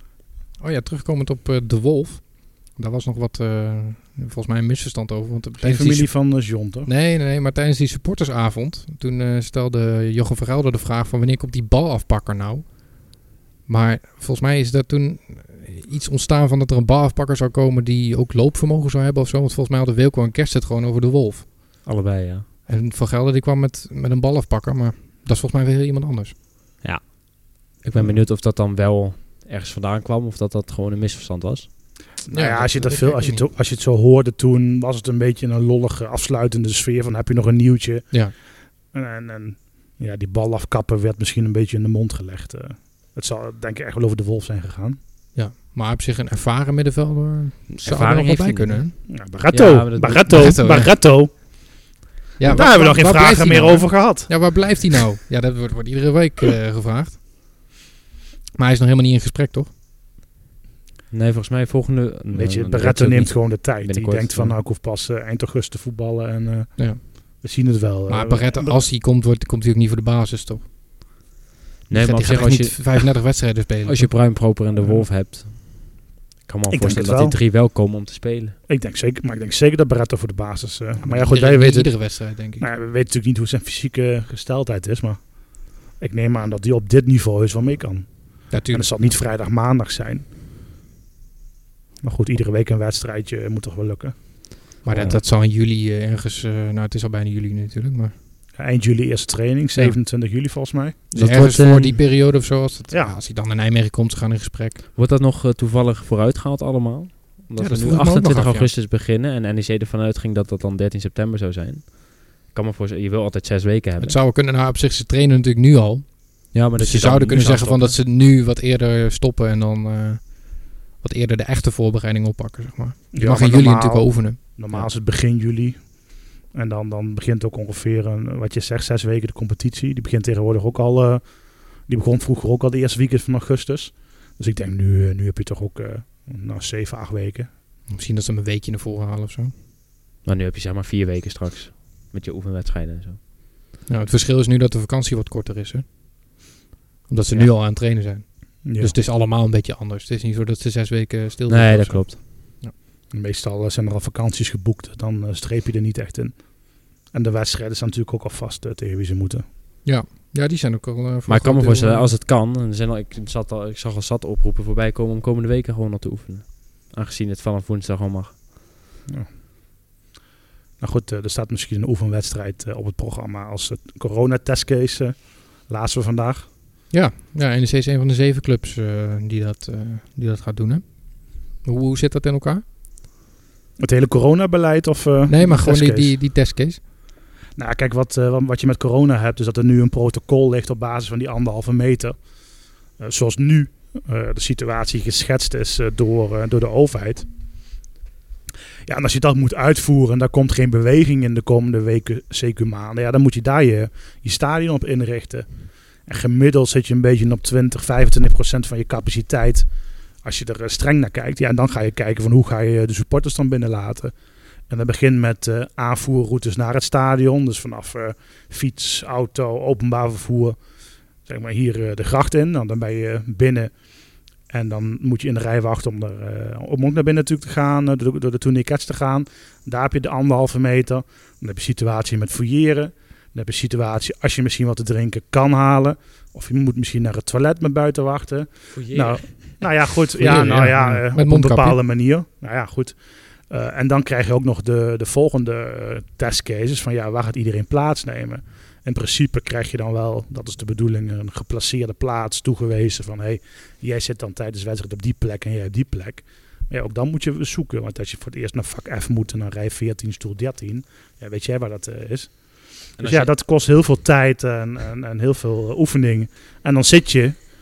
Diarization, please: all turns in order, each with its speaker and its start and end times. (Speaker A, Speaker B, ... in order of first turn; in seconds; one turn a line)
Speaker A: 0.6-6.2
Speaker B: 5.6-6.9
Speaker A: 6.8-21.9
Speaker C: 21.8-22.4
Speaker A: 22.7-26.4
Speaker C: 26.8-31.9
Speaker B: 32.2-38.3
Speaker A: 32.3-33.5
Speaker B: 38.9-45.0
Speaker A: 45.4-49.0
Speaker C: 47.7-50.6
Speaker B: 49.1-51.7
Speaker A: 50.3-51.3
Speaker A: 52.4-57.2
Speaker B: 52.4-54.6
Speaker A: 58.5-59.7
Speaker C: 61.1-64.6
Speaker B: 62.3-68.8
Speaker A: 66.8-67.4
Speaker A: 68.1-70.7
Speaker C: 71.9-73.2
Speaker A: 71.9-74.2
Speaker C: 73.8-78.6
Speaker B: 76.7-77.4
Speaker B: 78.7-90.3
Speaker A: 81.0-82.6
Speaker A: 88.5-88.9
Speaker B: 92.0-94.2
Speaker A: 94.8-98.1
Speaker C: 94.9-95.2
Speaker B: 98.6-101.0
Speaker A: 101.1-104.8
Speaker C: 101.1-102.0
Speaker C: 105.0-114.2
Speaker A: 107.6-108.7
Speaker A: 114.0-124.4
Speaker C: 116.5-118.0
Speaker B: 123.1-126.0
Speaker B: 126.5-131.2
Speaker B: 131.8-137.5
Speaker A: 137.9-139.5
Speaker C: 140.2-143.2
Speaker A: 143.9-146.4
Speaker A: 147.1-152.7
Speaker B: 148.6-148.9
Speaker C: 151.5-152.2
Speaker B: 153.1-159.5
Speaker A: 159.8-162.1
Speaker C: 161.3-168.4
Speaker B: 170.8-176.5
Speaker A: 176.9-182.6
Speaker B: 183.8-186.1
Speaker A: 185.3-186.8
Speaker B: 187.6-192.2
Speaker B: 193.0-197.3
Speaker B: 198.9-205.5
Speaker B: 206.1-209.7
Speaker B: 210.2-214.1
Speaker B: 214.7-220.6
Speaker B: 221.2-223.7
Speaker B: 224.5-243.0
Speaker C: 238.7-239.9
Speaker A: 240.2-241.8
Speaker B: 243.5-262.4
Speaker B: 263.0-267.5
Speaker C: 263.0-263.3